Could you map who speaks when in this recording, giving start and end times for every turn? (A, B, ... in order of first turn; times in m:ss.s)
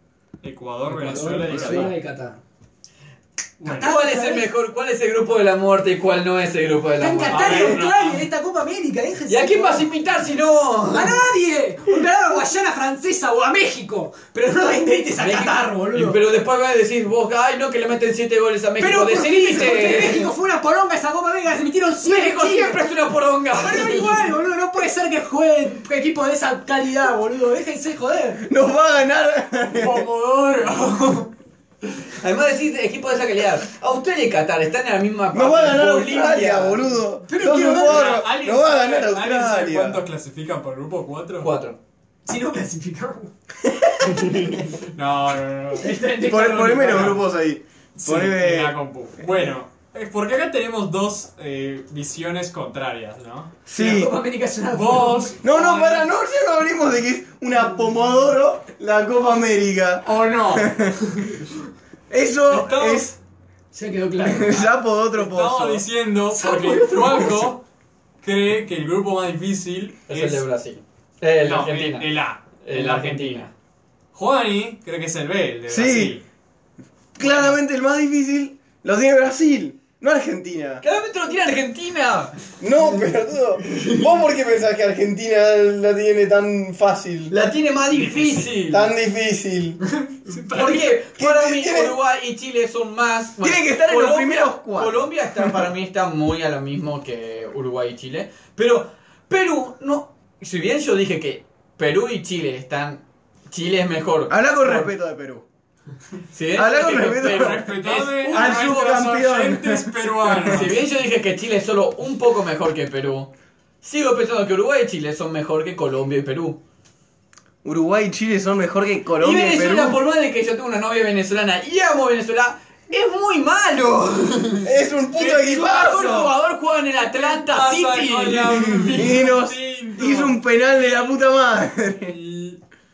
0:00.4-0:01.9 A
0:00.8-0:02.4 B
0:01.1-0:01.9 C
0:03.6-0:03.9 A
0:03.7-0:04.5 B
0:03.7-0:07.8 C
0:07.0-0:09.9 B
0:07.3-0:08.3 A
0:09.3-0:11.2 C
0:10.9-0:16.2 B
0:15.2-0:20.3 C
0:18.8-0:22.8 B
0:22.0-0:24.2 C
0:23.6-0:28.4 B
0:28.4-0:30.1 D
0:29.7-0:31.3 A
0:32.2-0:37.0 C
0:35.3-0:40.0 D
0:37.3-0:38.2 B
0:37.5-0:41.5 A
0:41.4-0:41.8 C
0:42.3-0:43.3 B
0:43.6-0:44.0 D
0:44.1-0:45.9 A
0:45.8-0:47.2 B
0:46.2-0:48.8 D
0:46.8-0:47.2 A
0:48.0-0:53.6 A
0:53.7-0:54.1 D
0:53.8-0:55.4 B
0:54.7-0:56.1 A
0:55.4-1:01.0 D
1:00.0-1:01.3 A
1:02.1-1:03.2 D
1:02.5-1:03.1 A
1:03.7-1:04.8 B
1:04.2-1:05.8 D
1:05.2-1:07.6 A
1:06.4-1:07.5 C
1:08.2-1:10.4 A
1:10.1-1:13.5 C
1:11.4-1:13.5 A
1:14.1-1:16.2 A
1:15.7-1:16.2 D
1:17.2-1:20.8 D
1:17.2-1:17.6 A
1:20.8-1:22.5 C
1:22.6-1:27.3 D
1:23.6-1:24.1 C
1:27.3-1:28.8 C
1:27.9-1:28.9 A
1:28.7-1:29.8 D
1:30.3-1:30.9 B
1:30.3-1:30.7 A
1:30.4-1:44.9 C
1:30.6-1:31.9 D
1:33.4-1:35.7 D
1:44.3-1:45.4 D
1:46.3-1:48.8 C
1:46.5-1:47.6 D
1:47.1-1:50.7 A
1:48.3-1:50.6 D
1:50.4-1:56.6 C
1:57.6-2:00.0 D
1:59.2-2:09.2 C
2:04.6-2:06.3 D
2:07.1-2:11.2 A
2:08.9-2:12.2 D
2:12.0-2:12.6 A